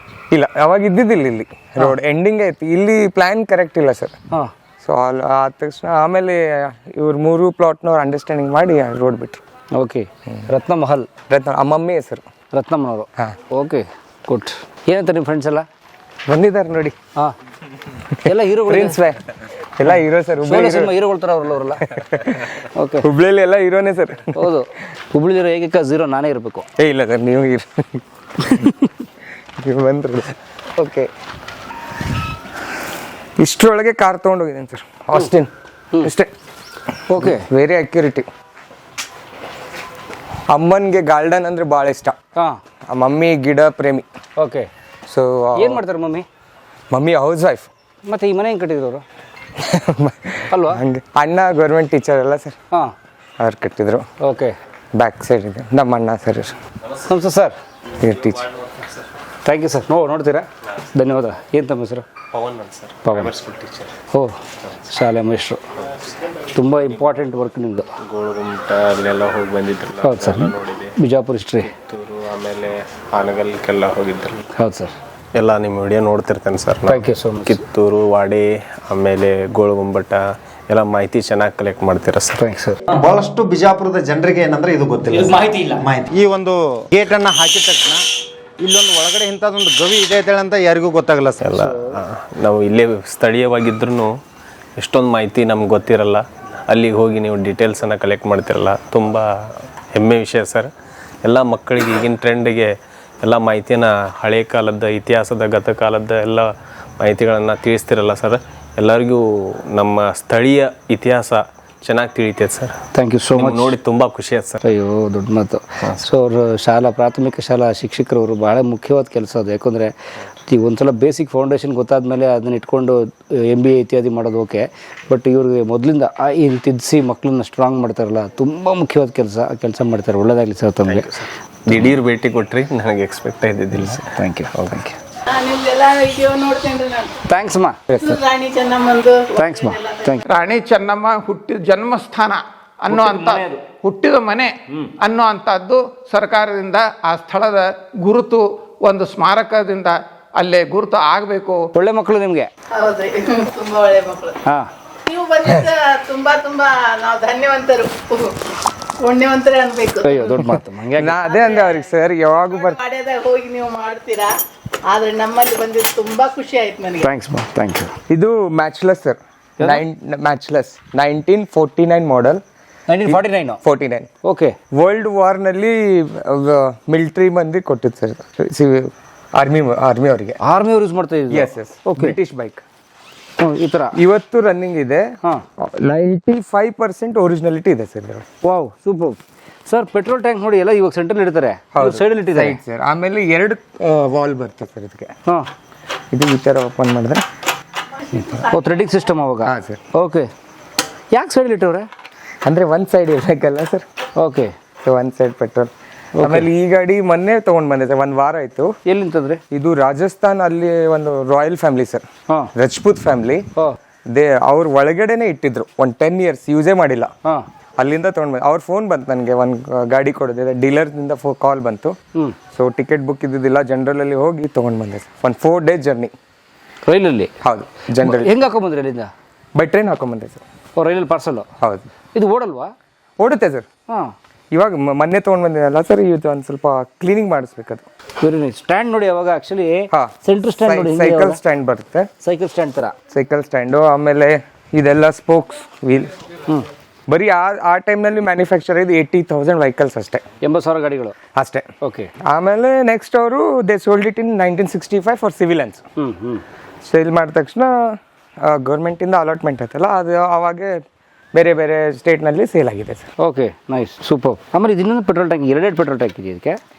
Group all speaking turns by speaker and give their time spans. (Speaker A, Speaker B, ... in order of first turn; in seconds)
Speaker A: 0.3-4.1, 4.8-9.4, 11.3-12.2, 16.3-16.9, 18.2-19.2, 19.8-21.0, 21.9-22.5, 23.0-24.5, 26.8-28.7, 29.6-31.1, 33.4-36.3, 37.2-38.3, 40.5-42.2, 42.9-44.1, 45.1-45.8, 46.9-47.7, 49.6-52.5, 53.4-54.1, 54.9-56.6, 58.0-58.5, 137.9-138.2, 160.9-162.8, 168.1-172.4, 173.1-174.1, 174.7-180.4, 181.3-182.6, 183.9-188.3, 191.7-195.1, 196.1-197.2, 199.4-199.8, 202.4-203.8, 204.8-208.7, 209.5-213.5, 214.1-217.1, 217.8-222.0, 222.5-226.1, 227.4-228.4, 229.6-230.4, 231.6-231.8, 233.2-233.7, 234.5-237.9, 239.9-242.1, 243.1-246.1, 247.1-250.2, 251.3-251.7, 252.2-255.8, 256.8-260.8, 261.3-263.1
Speaker B: 9.7-11.1, 12.5-15.6, 18.2-19.0, 20.4-21.9, 22.7-23.1, 24.3-26.7, 28.5-28.7, 37.1-37.5, 44.4-44.7, 45.5-46.2, 48.0-49.0, 50.5-50.8, 54.2-54.5, 57.0-57.6, 59.4-62.0, 63.0-63.3, 64.1-65.6, 66.5-67.9, 70.0-71.7, 74.5-74.9, 76.9-77.6, 82.4-82.8, 112.9-113.7, 114.6-119.9, 120.5-131.1, 134.0-134.9, 137.3-137.8, 139.3-140.2, 142.9-143.6, 151.7-152.5, 154.4-154.7, 160.0-161.1, 167.0-167.9, 172.9-173.6, 174.2-174.6, 180.4-182.2, 183.4-183.9, 188.4-192.6, 198.4-200.3, 201.1-201.9, 204.2-204.5, 206.2-206.5, 208.8-209.4, 226.8-227.3, 228.0-229.1, 230.8-231.5, 232.1-232.7, 238.2-241.4, 242.2-242.9, 250.4-251.2, 251.8-252.1, 256.0-256.4, 263.2-266.6
Speaker C: 62.3-63.9, 68.0-71.0, 71.6-74.5, 75.3-82.5, 91.4-94.2, 94.8-100.7, 101.2-112.8, 113.3-114.6, 130.8-134.1
Speaker D: 82.9-88.0, 88.6-91.7
Speaker E: 135.3-137.2, 138.0-140.2, 152.7-154.4, 155.1-158.4, 159.0-160.5, 161.2-164.3, 164.9-167.1, 198.0-198.7
Speaker F: 140.2-151.6